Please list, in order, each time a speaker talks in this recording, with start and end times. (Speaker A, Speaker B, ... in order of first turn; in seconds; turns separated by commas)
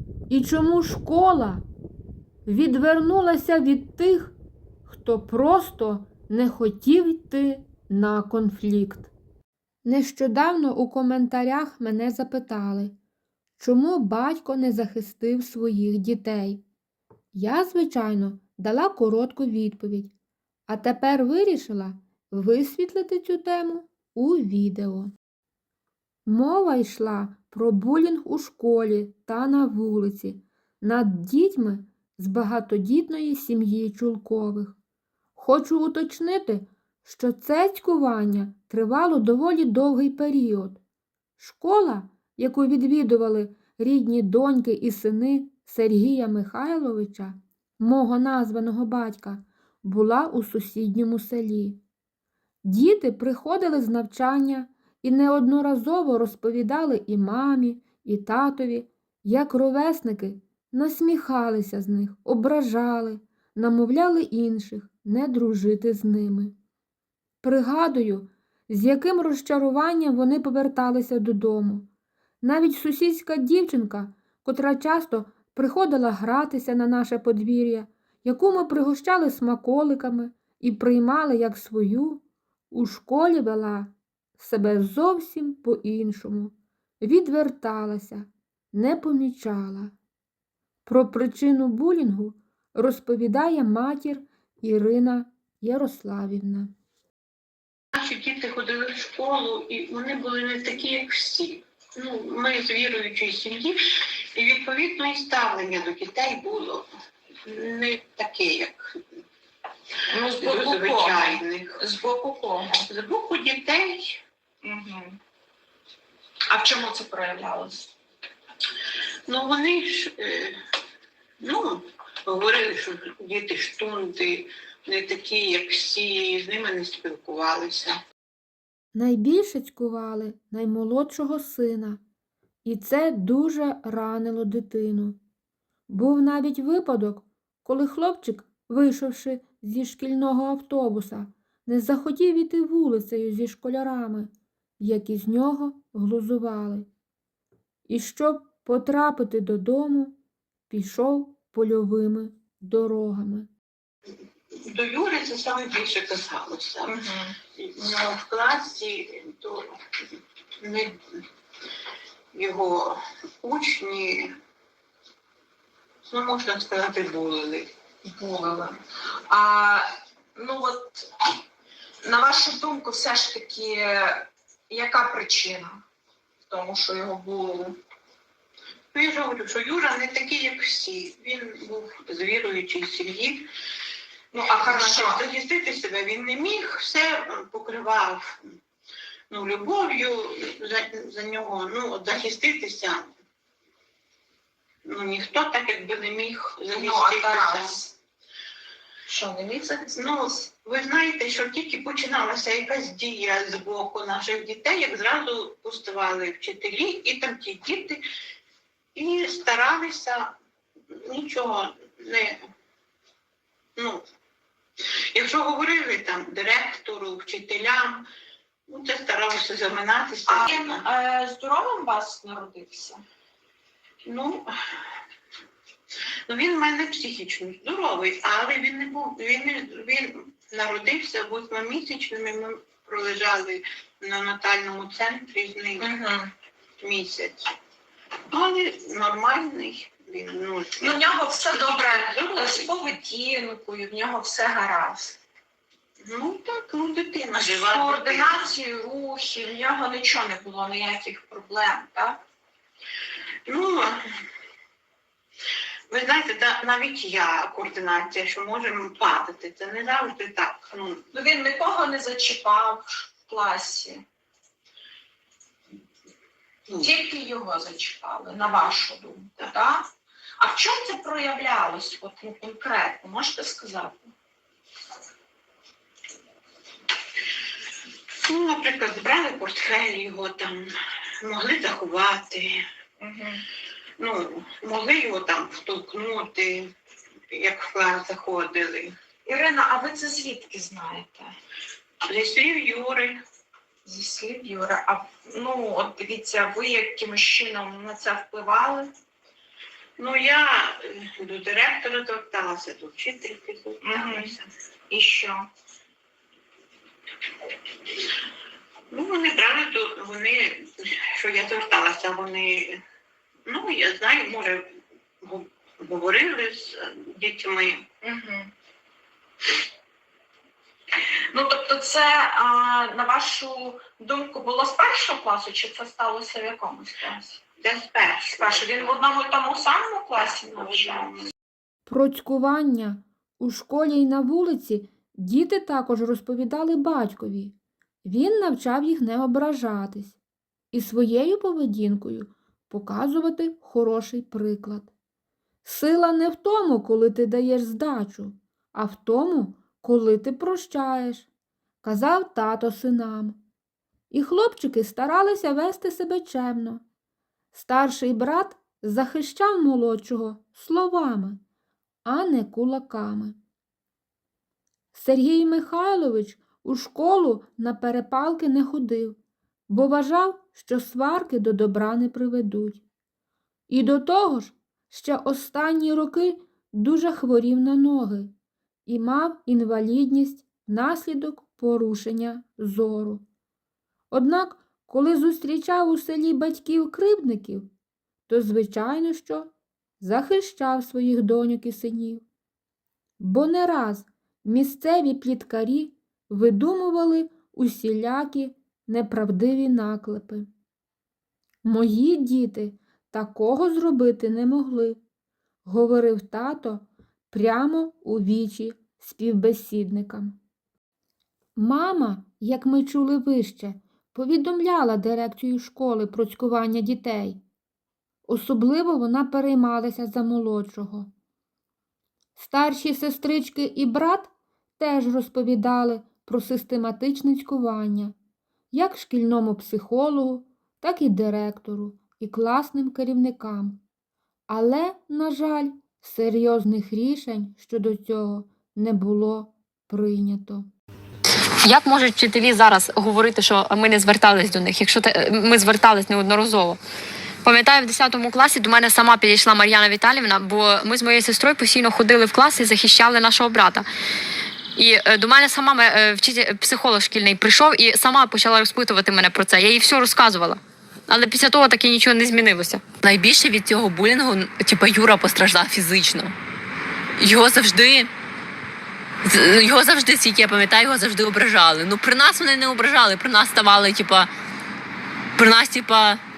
Speaker A: 0.3-1.6, Speaker A: 2.5-4.3, Speaker A: 4.9-9.1, Speaker A: 9.8-12.9, Speaker A: 13.6-16.6, Speaker A: 17.3-20.1, Speaker A: 20.7-25.1, Speaker A: 26.3-34.8, Speaker A: 35.4-40.8, Speaker A: 41.4-51.8, Speaker A: 52.6-66.5, Speaker A: 67.4-71.9, Speaker A: 72.4-89.9, Speaker A: 90.8-96.7, Speaker B: 97.9-103.8, Speaker B: 104.3-106.9, Speaker B: 107.5-109.0, Speaker C: 110.1-112.8, Speaker B: 110.2-111.8, Speaker B: 112.9-114.2, Speaker C: 114.6-115.2, Speaker C: 116.5-117.9, Speaker B: 119.3-120.6, Speaker B: 121.4-128.0, Speaker A: 128.9-132.0, Speaker A: 132.6-135.2, Speaker A: 135.9-146.9, Speaker A: 147.9-150.1, Speaker A: 150.7-153.5, Speaker B: 154.7-156.9, Speaker C: 156.9-157.3, Speaker B: 157.6-159.7, Speaker B: 160.6-160.9, Speaker B: 162.3-164.3, Speaker B: 166.0-167.7, Speaker C: 168.0-168.8, Speaker C: 169.3-171.1, Speaker C: 172.0-175.8, Speaker C: 176.5-177.8, Speaker B: 178.9-183.5, Speaker C: 184.3-185.2, Speaker B: 184.4-188.5, Speaker B: 189.3-193.1, Speaker B: 194.8-197.8, Speaker C: 196.7-197.9, Speaker C: 199.1-200.4, Speaker B: 199.9-208.0, Speaker B: 208.9-210.3, Speaker B: 210.9-212.4, Speaker B: 213.8-214.0, Speaker B: 215.1-218.0, Speaker B: 218.7-220.8, Speaker C: 220.3-223.0, Speaker B: 224.0-224.5, Speaker B: 226.3-235.9, Speaker C: 235.8-236.3, Speaker B: 236.8-237.4, Speaker B: 238.3-242.7, Speaker C: 240.8-245.2, Speaker B: 246.0-248.3, Speaker C: 247.5-252.2, Speaker B: 253.5-254.0, Speaker B: 255.9-261.1, Speaker C: 261.1-264.0, Speaker C: 266.7-274.1, Speaker B: 278.2-280.7, Speaker B: 281.2-282.6, Speaker C: 283.0-283.4, Speaker B: 284.0-286.7, Speaker B: 287.3-288.9, Speaker C: 289.2-291.3, Speaker B: 292.1-293.2, Speaker C: 293.8-298.9, Speaker B: 300.0-304.5, Speaker C: 303.8-304.3, Speaker C: 304.9-305.5, Speaker B: 308.9-312.8, Speaker B: 313.4-317.9, Speaker C: 318.0-318.5, Speaker C: 321.3-327.4, Speaker B: 327.6-329.0, Speaker C: 328.4-331.1, Speaker B: 330.6-331.3, Speaker A: 331.9-340.2, Speaker A: 340.7-344.9, Speaker A: 345.6-351.3, Speaker A: 351.8-353.4, Speaker A: 354.1-356.8, Speaker A: 357.5-361.4, Speaker A: 362.1-363.4, Speaker A: 364.9-369.2, Speaker A: 369.7-372.8, Speaker A: 373.7-378.3, Speaker A: 378.9-383.2, Speaker A: 384.1-387.7, Speaker A: 388.3-392.2, Speaker A: 393.2-400.4, Speaker A: 401.6-405.0, Speaker A: 405.6-410.4, Speaker A: 411.6-417.4, Speaker A: 418.3-421.1, Speaker A: 422.4-428.1, Speaker A: 428.7-433.8, Speaker A: 434.5-440.7, Speaker D: 441.6-446.8, Speaker D: 447.4-453.9, Speaker D: 454.8-462.8, Speaker E: 463.0-466.3, Speaker E: 467.2-468.1, Speaker E: 469.2-474.3, Speaker E: 475.4-476.2